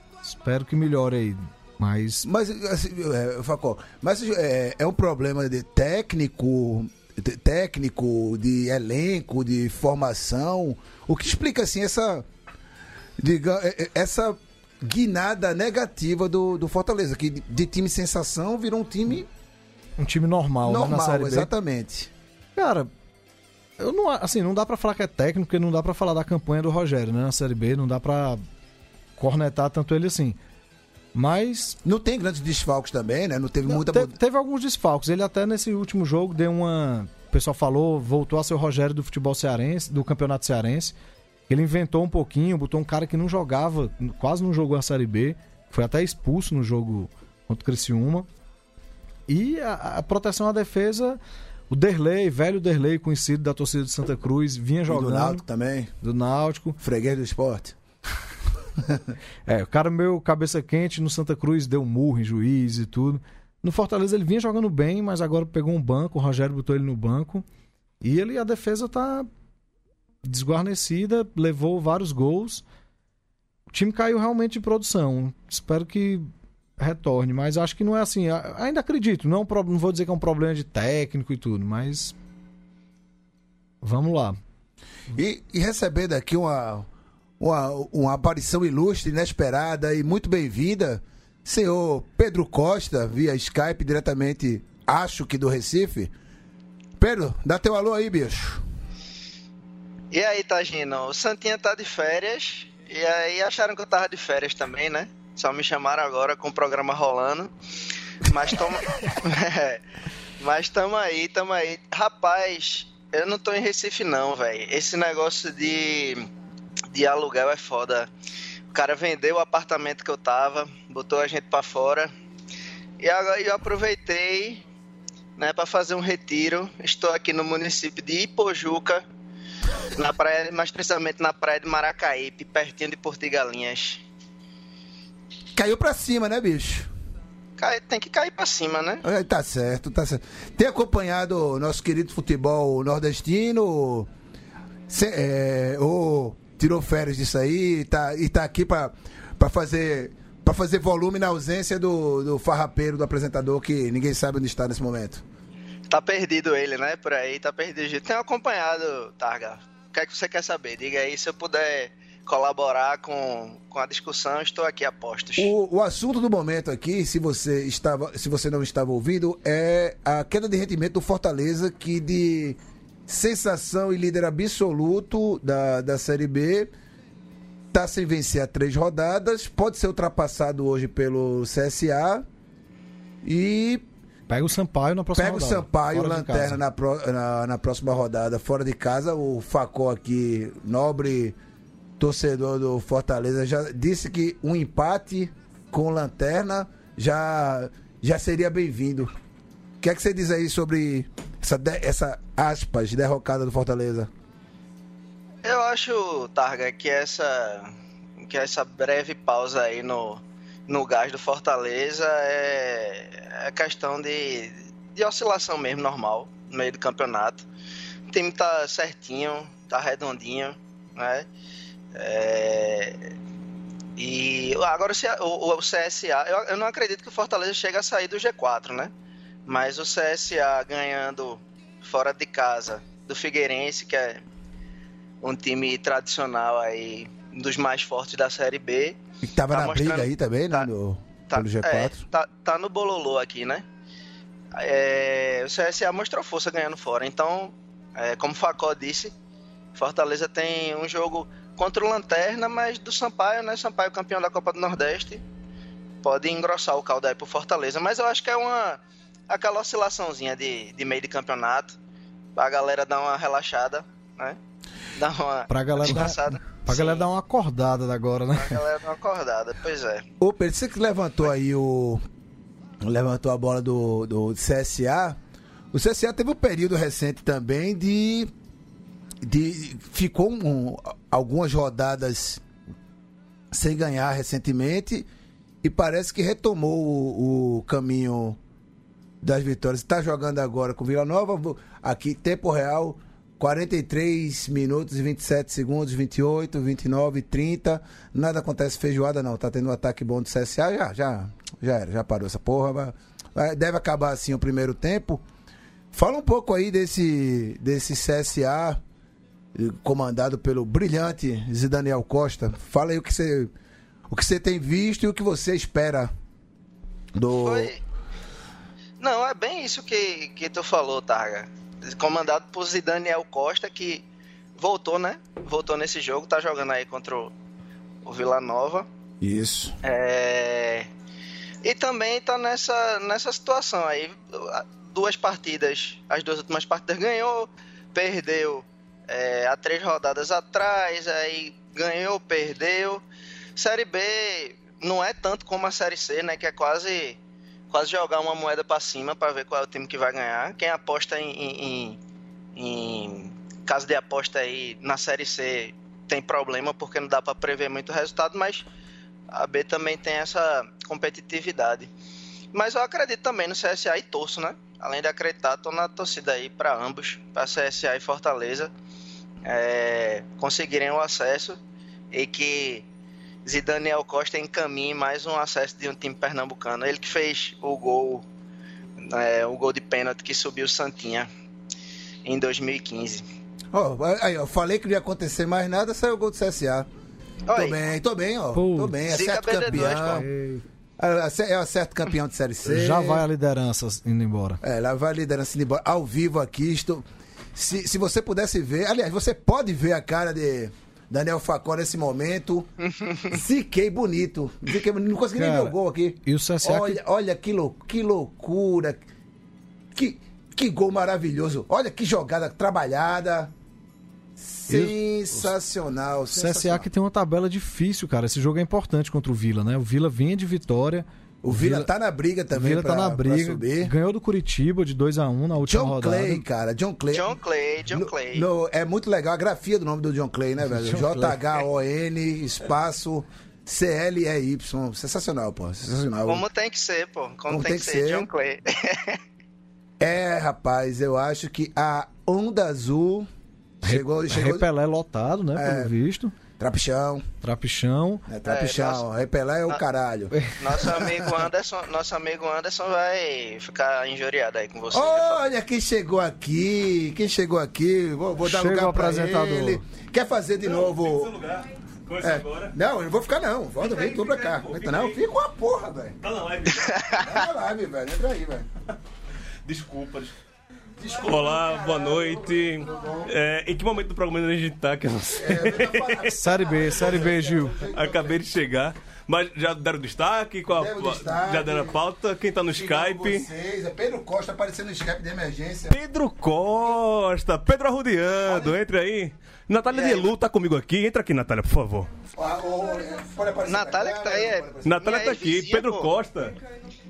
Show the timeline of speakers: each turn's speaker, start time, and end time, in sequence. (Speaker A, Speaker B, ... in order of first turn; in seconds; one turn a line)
Speaker A: 0.2-2.2
Speaker B: 2.2-12.2
Speaker B: 13.2-19.3
Speaker A: 20.0-21.5
Speaker B: 20.6-22.1
Speaker A: 22.6-22.9
Speaker A: 23.8-28.4
Speaker A: 29.2-30.4
Speaker A: 31.1-31.8
Speaker B: 31.8-34.1
Speaker A: 33.7-40.9
Speaker A: 41.5-48.3
Speaker A: 49.3-51.2
Speaker A: 51.7-55.4
Speaker B: 54.9-55.9
Speaker A: 56.0-56.8
Speaker B: 56.8-57.8
Speaker A: 59.5-67.4
Speaker A: 68.0-69.3
Speaker A: 70.2-72.6
Speaker A: 73.7-82.1
Speaker A: 83.8-84.4
Speaker B: 85.1-86.9
Speaker B: 87.4-96.1
Speaker B: 97.0-98.6
Speaker C: 100.1-107.5
Speaker C: 108.2-109.8
Speaker C: 110.4-116.3
Speaker C: 116.9-118.1
Speaker C: 118.7-122.1
Speaker C: 123.0-124.6
Speaker C: 125.4-129.0
Speaker C: 129.9-134.0
Speaker B: 135.5-136.9
Speaker C: 137.6-139.0
Speaker B: 139.0-144.1
Speaker B: 144.9-155.2
Speaker C: 155.9-165.5
Speaker B: 165.4-176.7
Speaker B: 177.7-182.2
Speaker B: 183.2-183.8
Speaker A: 184.3-186.6
Speaker B: 185.1-191.3
Speaker B: 192.0-199.1
Speaker B: 199.8-204.1
Speaker C: 205.4-207.7
Speaker C: 208.2-217.4
Speaker C: 218.1-221.3
Speaker C: 221.9-223.1
Speaker C: 224.0-228.9
Speaker C: 229.5-234.2
Speaker C: 235.2-239.0
Speaker B: 239.2-242.0
Speaker C: 239.5-240.7
Speaker C: 241.3-243.6
Speaker C: 244.5-249.1
Speaker C: 249.7-255.2
Speaker C: 256.0-261.8
Speaker C: 262.4-264.4
Speaker C: 265.0-267.0
Speaker A: 265.5-268.6
Speaker C: 268.3-270.1
Speaker B: 270.2-272.0
Speaker B: 272.8-275.2
Speaker B: 275.7-278.3
Speaker B: 279.2-282.4
Speaker B: 283.5-285.1
Speaker B: 285.6-288.4
Speaker B: 289.2-305.2
Speaker B: 305.9-308.8
Speaker B: 309.5-313.5
Speaker B: 314.1-316.1
Speaker B: 317.1-317.7
Speaker C: 317.4-317.8
Speaker C: 319.0-324.0
Speaker C: 324.6-327.3
Speaker C: 328.0-328.9
Speaker B: 329.2-329.8
Speaker C: 329.8-330.9
Speaker C: 331.6-343.0
Speaker C: 343.6-347.2
Speaker C: 347.7-352.0
Speaker C: 352.5-358.7
Speaker C: 359.3-361.9
Speaker C: 362.5-368.7
Speaker C: 369.4-371.6
Speaker C: 372.1-372.9
Speaker C: 373.4-378.2
Speaker C: 379.0-381.3
Speaker C: 382.2-383.2
Speaker B: 383.7-386.9
Speaker C: 387.5-387.8
Speaker B: 387.5-390.2
Speaker A: 388.5-388.9
Speaker C: 389.1-390.2
Speaker A: 389.7-390.6
Speaker B: 391.0-393.2
Speaker A: 392.6-394.6
Speaker B: 394.6-402.7
Speaker B: 403.3-409.0
Speaker A: 405.4-407.0
Speaker B: 409.9-413.5
Speaker B: 414.4-416.9
Speaker A: 414.7-414.9
Speaker A: 416.3-421.9
Speaker B: 421.4-423.9
Speaker A: 422.5-426.4
Speaker B: 425.7-427.4
Speaker C: 427.1-428.5
Speaker B: 427.9-436.4
Speaker A: 430.8-431.3
Speaker C: 436.2-439.2
Speaker B: 437.5-438.3
Speaker B: 440.0-443.3
Speaker B: 443.8-444.7
Speaker A: 443.8-446.3
Speaker B: 445.6-445.9
Speaker B: 446.6-447.2
Speaker A: 447.4-448.2
Speaker B: 448.3-451.4
Speaker C: 448.4-449.0
Speaker A: 450.3-450.6
Speaker C: 450.6-455.4
Speaker B: 454.9-461.3
Speaker A: 458.4-459.8
Speaker D: 460.6-462.7
Speaker B: 462.2-466.1
Speaker D: 463.8-465.2
Speaker D: 466.2-467.2
Speaker C: 466.7-467.3
Speaker B: 467.2-468.7
Speaker D: 469.6-470.3
Speaker B: 471.0-473.3
Speaker D: 471.1-476.3
Speaker B: 475.4-478.4
Speaker A: 476.3-477.8
Speaker D: 477.9-483.5
Speaker B: 480.7-482.0
Speaker B: 482.7-486.0
Speaker D: 485.9-492.1
Speaker B: 488.5-488.7
Speaker C: 489.9-490.3
Speaker B: 492.4-495.0
Speaker C: 493.7-496.1
Speaker D: 494.8-496.6